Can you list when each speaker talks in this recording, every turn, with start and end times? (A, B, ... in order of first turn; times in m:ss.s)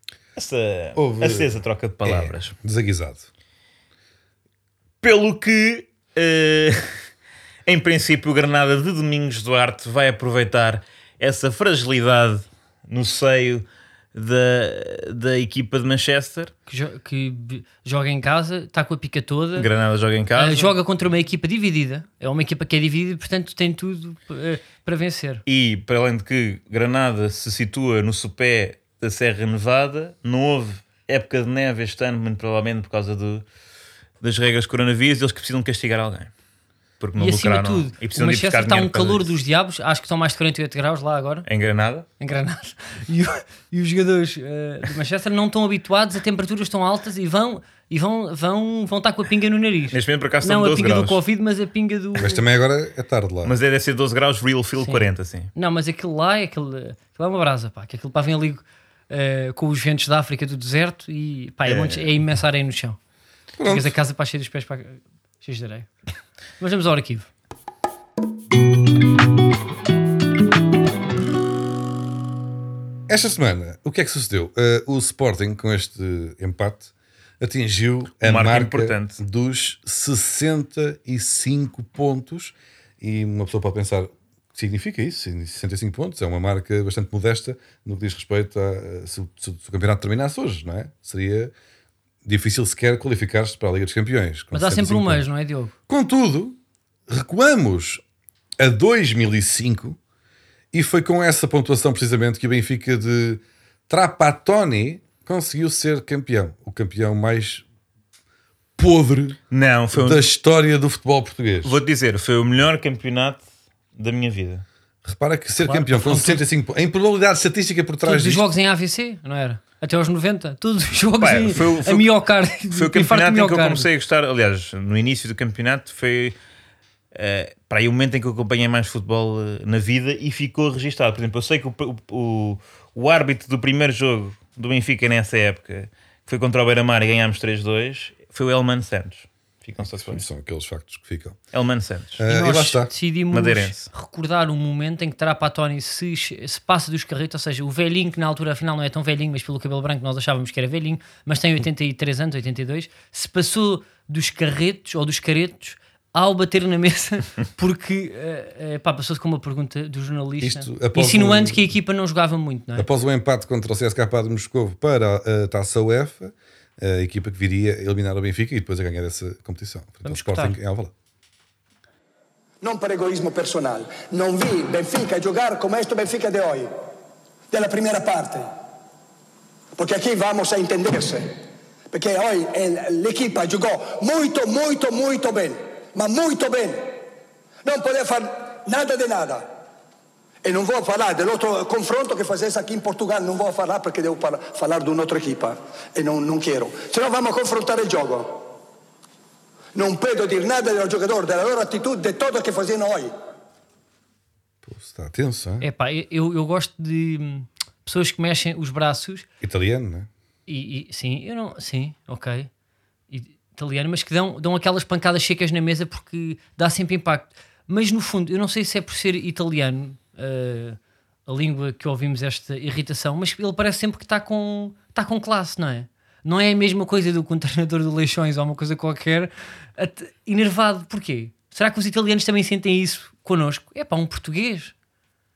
0:00.4-0:02.6 A
0:01.0-0:01.5 B
0:02.0-0:03.3 B
0:05.0-0:06.9 A
0:07.7-0:16.5 A
0:16.7-0:19.7 C
0:19.6-0:20.8 A
0:20.4-0:25.4 C
0:25.5-0:33.4 A
0:34.2-0:36.3 A
0:37.0-0:39.3 A
0:37.2-0:41.5 C
0:41.5-0:42.1 A
0:42.2-0:52.4 C
0:49.9-0:51.2 A
0:52.2-0:53.6 B
0:53.4-0:55.5 A
0:54.8-1:03.0 C
1:01.7-1:02.1 A
1:03.6-1:04.0 B
1:03.6-1:05.9 C
1:06.6-1:07.3 C
1:13.1-1:31.5 B
1:18.2-1:19.2 A
1:32.2-1:35.2 B
1:34.5-1:35.7 C
1:35.9-1:36.6 B
1:37.1-1:38.0 B
1:38.6-1:40.0 B
1:40.7-1:47.6 B
1:48.8-1:49.4 B
1:49.5-1:50.2 A
1:49.9-1:51.8 B
1:51.6-1:53.4 A
1:54.0-1:54.6 A
1:55.0-1:58.4 B
1:55.6-1:56.4 C
1:58.0-2:03.9 C
2:01.2-2:02.1 A
2:02.7-2:06.4 A
2:07.1-2:20.2 A
2:19.8-2:21.4 B
2:21.5-2:22.2 A
2:22.2-2:22.9 B
2:22.3-2:42.9 C
2:23.3-2:23.9 A
2:40.4-2:41.7 B
2:42.8-2:50.9 B
2:50.0-2:50.6 C
2:52.6-2:56.7 D
2:57.5-2:58.5 D
2:59.8-3:01.3 D
3:01.9-3:07.0 D
3:07.6-3:09.5 D
3:10.4-3:18.5 D
3:19.7-3:23.1 D
3:24.6-3:25.7 B
3:25.6-3:29.2 C
3:29.4-3:30.1 B
3:30.5-3:32.5 C
3:33.1-3:54.7 C